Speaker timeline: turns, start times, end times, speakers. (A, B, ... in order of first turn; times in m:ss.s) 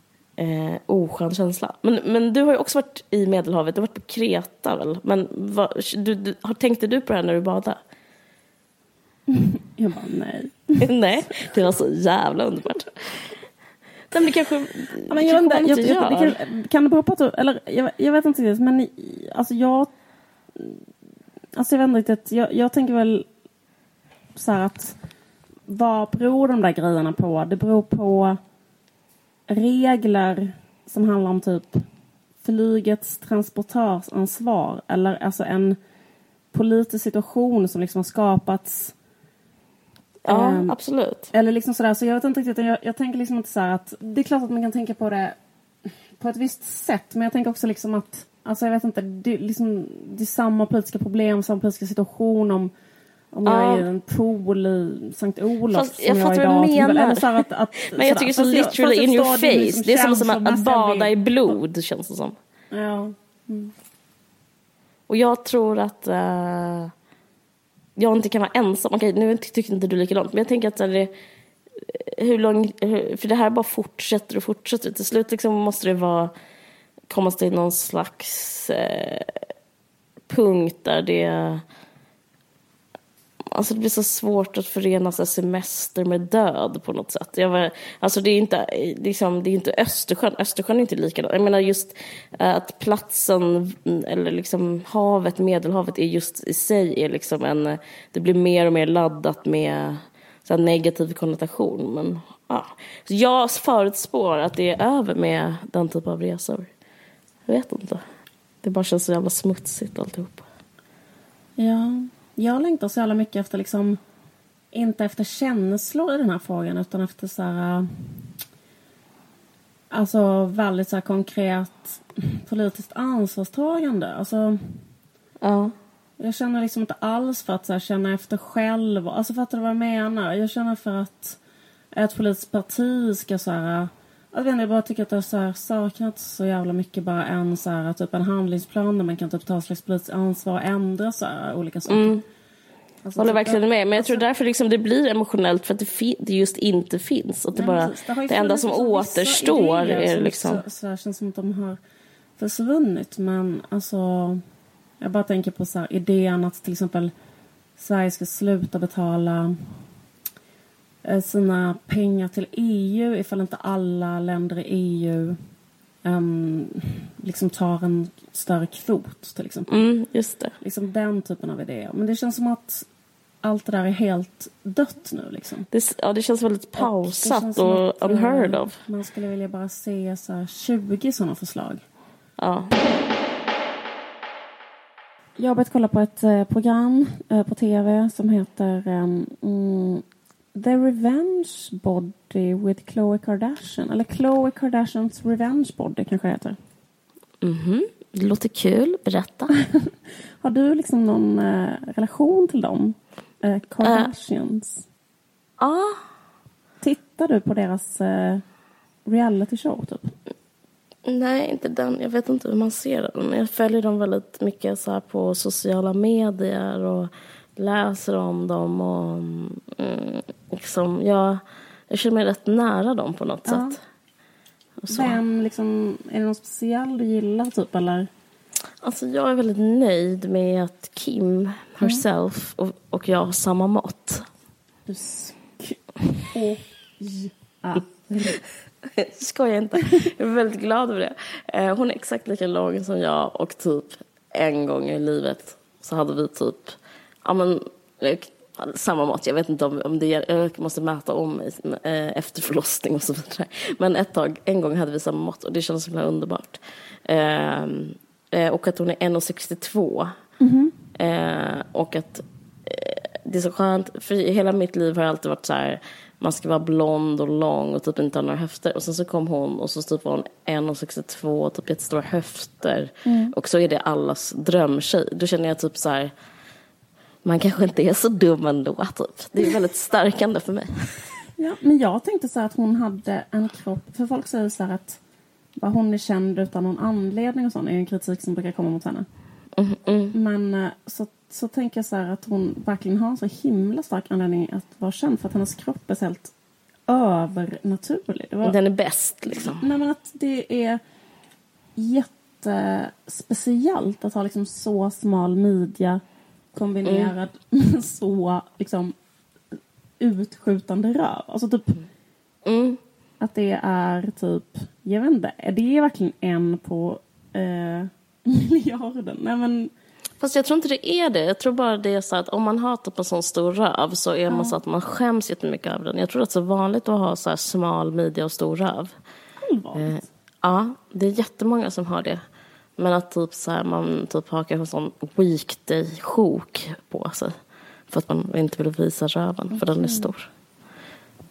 0:00.4-0:07.8 A
0:09.3-0:11.4 B
0:10.8-0:13.3 A
0:14.1-0:16.4 A
0:15.1-0:19.9 B
0:21.6-0:23.3 B
0:24.4-0:25.0 B
0:25.7-0:28.4 B
0:29.5-0:31.8 B
0:32.4-0:35.8 B
0:36.5-0:38.9 B
0:40.3-0:40.8 B
0:40.3-0:41.3 A
0:41.3-0:45.4 B
0:45.9-0:52.7 B
0:53.3-1:01.1 B
0:53.5-0:53.8 A
0:55.7-0:57.4 A
0:57.9-1:02.4 A
1:02.7-1:03.7 B
1:05.1-1:06.9 A
1:08.0-1:11.1 A
1:11.8-1:16.3 A
1:17.1-1:19.4 A
1:20.3-1:21.6 A
1:23.5-1:46.7 A
1:47.5-1:48.0 A
1:48.6-1:50.5 A
1:51.6-1:54.0 B
1:54.7-1:58.0 B
1:59.9-2:04.8 B
2:05.4-2:05.8 A
2:06.2-2:11.4 B
2:12.0-2:22.2 B
2:21.9-2:22.2 A
2:23.0-2:24.2 B
2:23.2-2:30.6 A
2:27.5-2:31.8 B
2:32.4-2:34.4 B
2:35.0-2:37.1 B
2:37.8-2:39.6 B
2:41.0-2:45.4 B
2:46.0-2:49.8 B
2:49.7-2:50.6 A
2:50.6-2:52.9 B
2:53.4-2:55.7 B
2:55.7-2:58.8 A
2:56.8-3:01.8 B
3:02.4-3:02.8 A
3:05.4-3:16.6 B
3:17.4-3:19.5 A
3:19.6-3:19.9 B
3:20.4-3:24.9 B
3:23.8-3:24.1 A
3:25.6-3:26.0 A
3:26.8-3:28.4 B
3:29.1-3:30.1 B
3:31.1-3:43.8 A
3:43.5-3:43.8 B
3:44.8-3:45.2 A
3:44.9-3:48.1 B
3:48.8-3:54.3 A
3:54.9-3:58.4 B
3:58.8-4:20.2 A
4:20.4-4:20.7 B
4:21.0-4:36.1 A
4:33.0-4:33.4 B
4:37.2-4:41.1 A
4:41.4-4:45.0 B
4:45.6-4:49.1 B
4:49.6-4:50.2 A
4:50.1-4:56.3 B
4:56.9-4:58.6 B
4:58.4-4:59.7 A
4:59.3-5:00.8 B
5:01.8-5:06.0 B
5:06.5-5:08.9 B
5:06.8-5:07.1 A
5:10.0-5:11.8 B
5:12.4-5:12.8 A
5:13.2-5:19.7 B
5:20.2-5:28.9 A
5:24.3-5:24.6 B
5:29.4-5:30.1 B
5:29.8-5:32.2 A
5:32.8-5:37.4 A
5:37.9-5:40.3 A
5:39.5-5:40.1 B